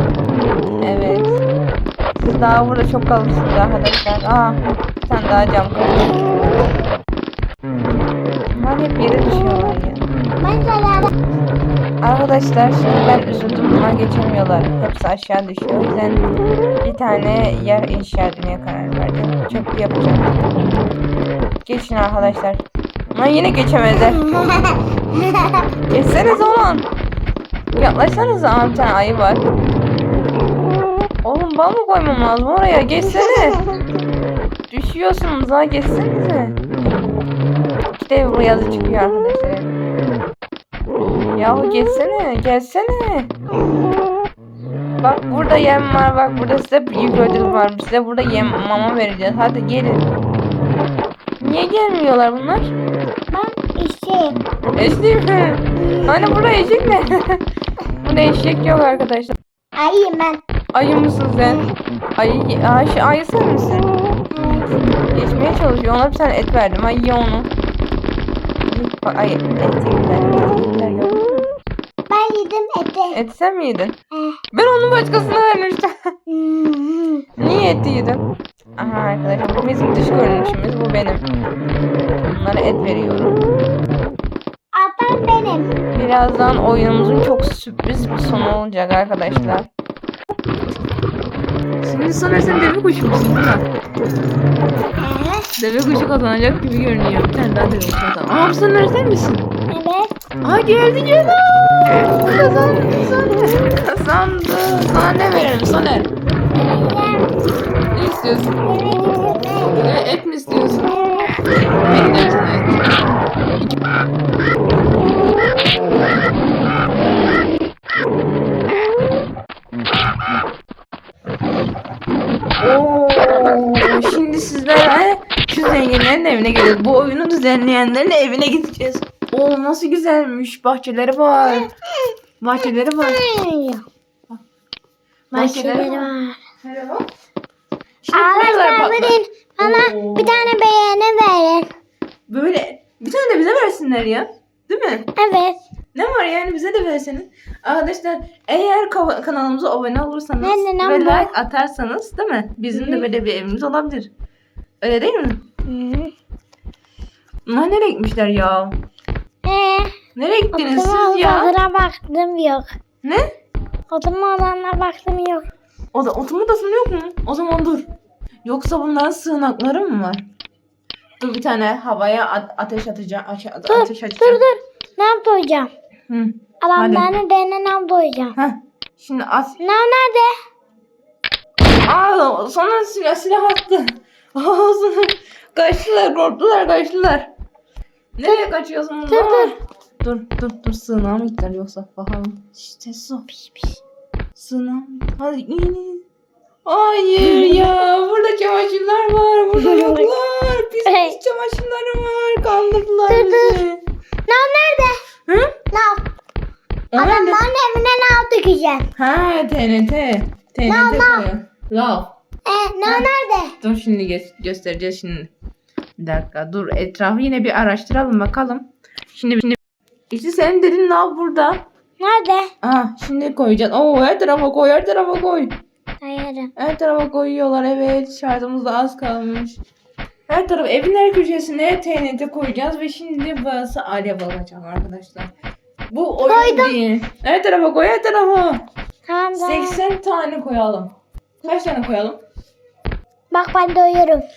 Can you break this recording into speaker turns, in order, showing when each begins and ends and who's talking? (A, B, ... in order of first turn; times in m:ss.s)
0:00.8-0:01.4 A
0:02.2-0:06.3 A
0:08.5-0:10.1 A
0:10.4-0:11.1 B
0:12.0-0:16.2 A
0:16.8-0:20.3 A
0:21.6-0:24.3 A
0:25.1-0:25.6 B
0:25.9-0:26.9 A
0:27.8-0:29.4 A
0:31.2-0:33.6 A
0:34.7-0:36.6 A
0:37.9-0:39.7 A
0:41.4-0:43.3 A
0:45.0-0:50.0 A
0:51.4-0:52.7 A
0:53.3-0:54.4 B
0:54.7-0:57.4 A
0:55.7-0:56.3 B
0:58.0-0:59.4 A
0:59.8-1:00.4 B
1:00.7-1:03.9 A
1:04.3-1:04.8 B
1:05.1-1:07.5 A
1:08.6-1:11.5 A
1:12.1-1:13.2 B
1:13.1-1:14.0 A
1:14.1-1:14.4 B
1:14.5-1:15.9 A
1:16.3-1:17.2 B
1:17.4-1:18.2 A
1:18.8-1:21.2 A
1:22.3-1:23.4 A
1:24.7-1:25.7 B
1:25.9-1:29.7 A
1:31.8-1:33.7 A
1:35.0-1:35.5 B
1:35.6-1:39.5 A
1:39.7-1:40.1 B
1:40.4-1:46.1 A
1:46.5-1:49.8 B
1:47.9-1:48.6 A
1:49.7-1:50.9 A
1:51.8-1:52.8 A
2:02.6-2:11.7 A
2:12.4-2:13.2 A
2:13.0-2:13.8 B
2:15.3-2:16.1 A
2:15.3-2:16.4 B
2:16.6-2:17.0 A
2:18.0-2:20.5 A
2:18.1-2:21.7 B
2:22.3-2:25.1 A
2:25.2-2:25.6 B
2:25.9-2:34.1 A
2:30.4-2:31.3 B
2:32.7-2:33.0 B
2:34.8-2:35.4 A
2:35.7-2:36.1 B
2:37.4-2:38.8 A
2:39.4-2:39.9 B
2:40.1-2:41.5 A
2:40.5-2:42.7 B
2:43.9-2:45.4 B
2:45.9-2:47.9 A
2:48.4-2:50.2 A
2:51.2-2:54.4 A
2:53.7-2:55.7 B
2:56.1-2:57.1 A
2:56.6-2:58.3 B
2:58.3-2:59.6 A
2:59.6-3:00.3 B
3:01.8-3:07.3 A
3:08.2-3:13.2 A
3:09.1-3:09.5 B
3:13.3-3:13.8 B
3:14.3-3:16.0 A
3:16.6-3:23.8 A
3:17.2-3:17.7 B
3:19.6-3:20.1 B
3:20.8-3:21.2 B
3:23.1-3:23.6 B
3:24.3-3:25.0 B
3:25.3-3:25.6 A
3:25.7-3:26.0 B
3:26.9-3:27.4 A
3:27.0-3:28.9 B
3:29.0-3:32.1 A
3:30.6-3:31.3 B
3:32.4-3:33.5 B
3:32.8-3:33.1 A
3:33.6-3:35.3 A
3:36.0-3:39.6 A
3:40.1-3:41.6 A
3:42.0-3:42.5 B
3:42.6-3:45.6 A
3:46.0-3:46.5 B
3:46.6-3:49.6 A
3:50.3-3:55.3 A
3:55.9-3:58.6 A
3:56.3-3:56.8 B
3:59.1-3:59.8 B
3:59.3-4:02.2 A
4:03.3-4:04.2 B